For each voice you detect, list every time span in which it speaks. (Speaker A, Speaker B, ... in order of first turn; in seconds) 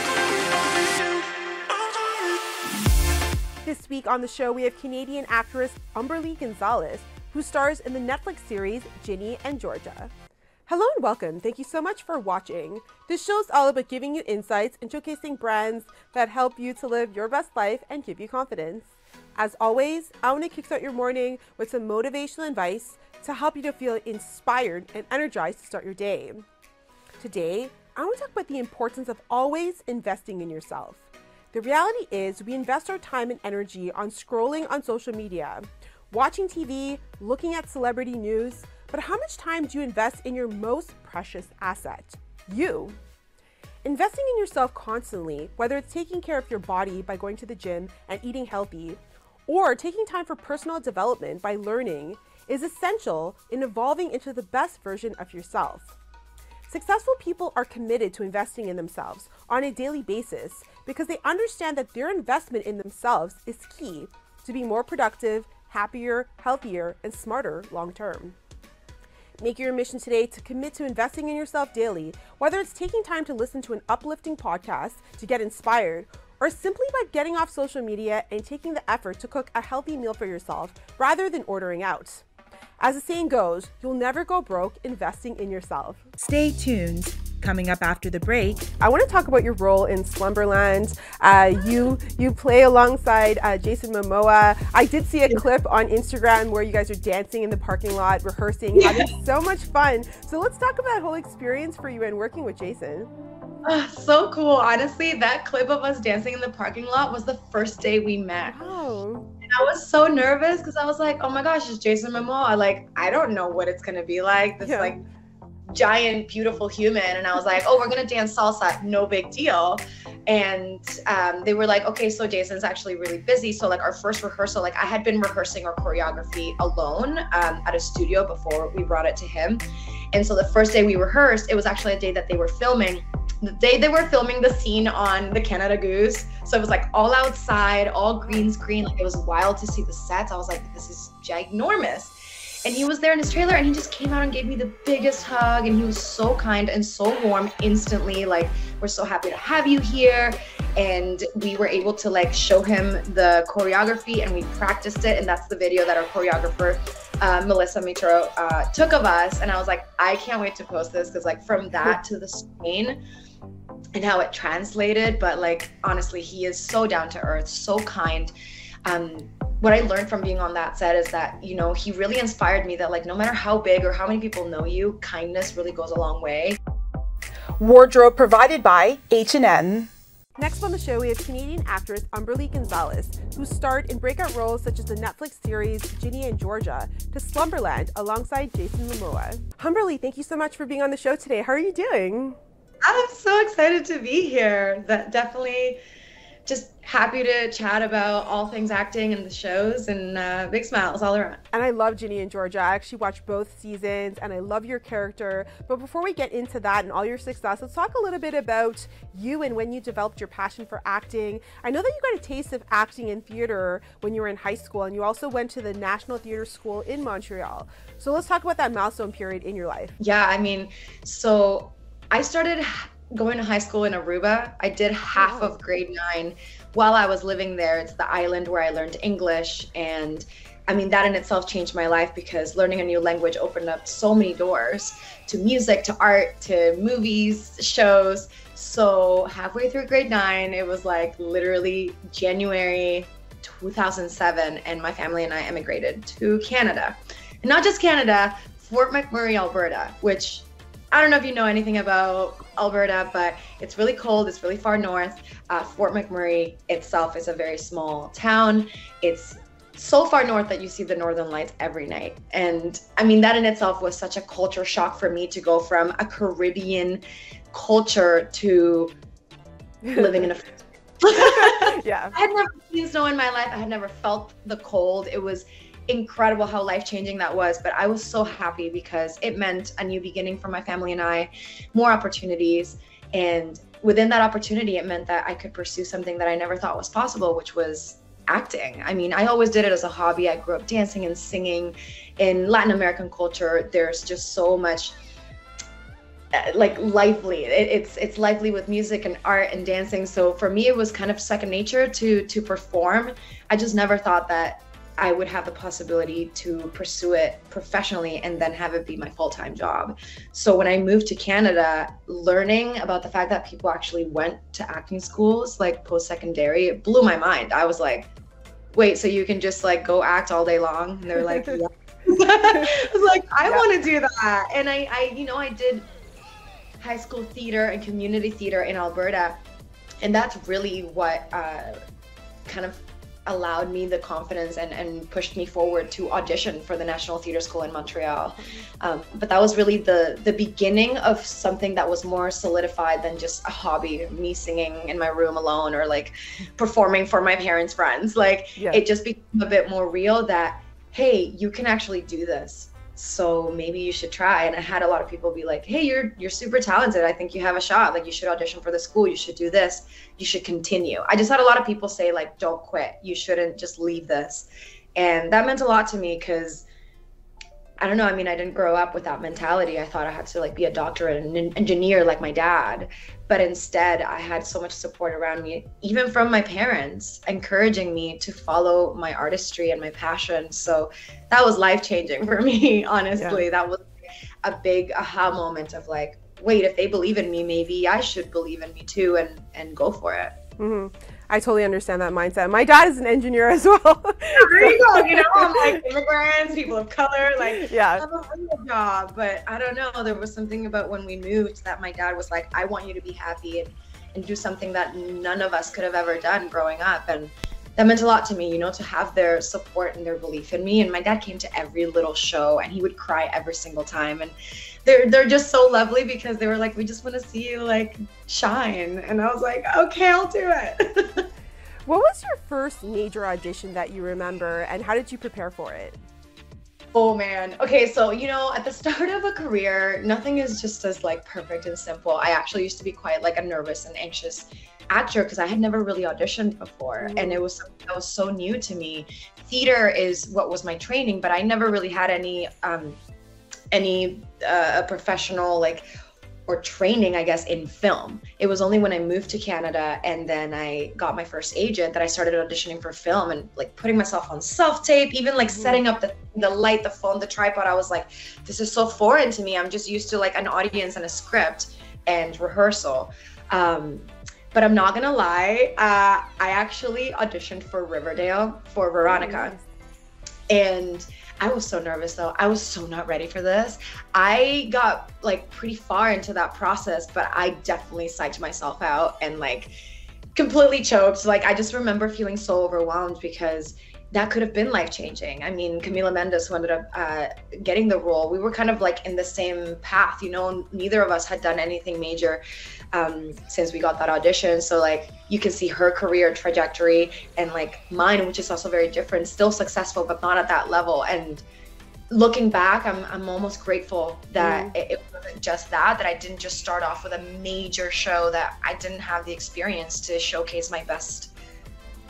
Speaker A: 3.6-10.1, 10.7-26.4, 27.2-43.0, 43.8-55.9, 56.7-68.3, 69.4-82.2, 82.8-86.0, 88.8-103.1, 108.5-109.3, 114.6-115.0, 180.4-192.4, 201.5-220.0, 225.2-225.5, 269.8-270.1, 271.1-272.2, 348.6-348.8, 383.1-383.4, 390.6-395.8, 397.4-398.1, 421.9-426.0, 437.0-437.4, 455.5-455.8, 469.1-469.6, 504.4-504.7
Speaker B: 86.2-88.7, 177.6-179.9
Speaker C: 98.8-99.1, 103.6-108.6, 109.4-115.0, 115.7-142.1, 142.6-163.0, 163.9-168.3, 168.8-176.6, 192.8-195.8, 196.4-201.4, 220.0-268.9, 269.9-294.9, 296.3-318.1, 318.7-325.9, 326.8-329.4, 330.0-331.8, 332.4-366.6, 367.8-383.9, 384.4-390.4, 394.3-414.3, 414.8-421.2, 426.9-443.0, 443.7-445.8, 446.5-469.5, 470.5-479.7, 480.3-492.4, 492.9-501.4, 502.1-511.3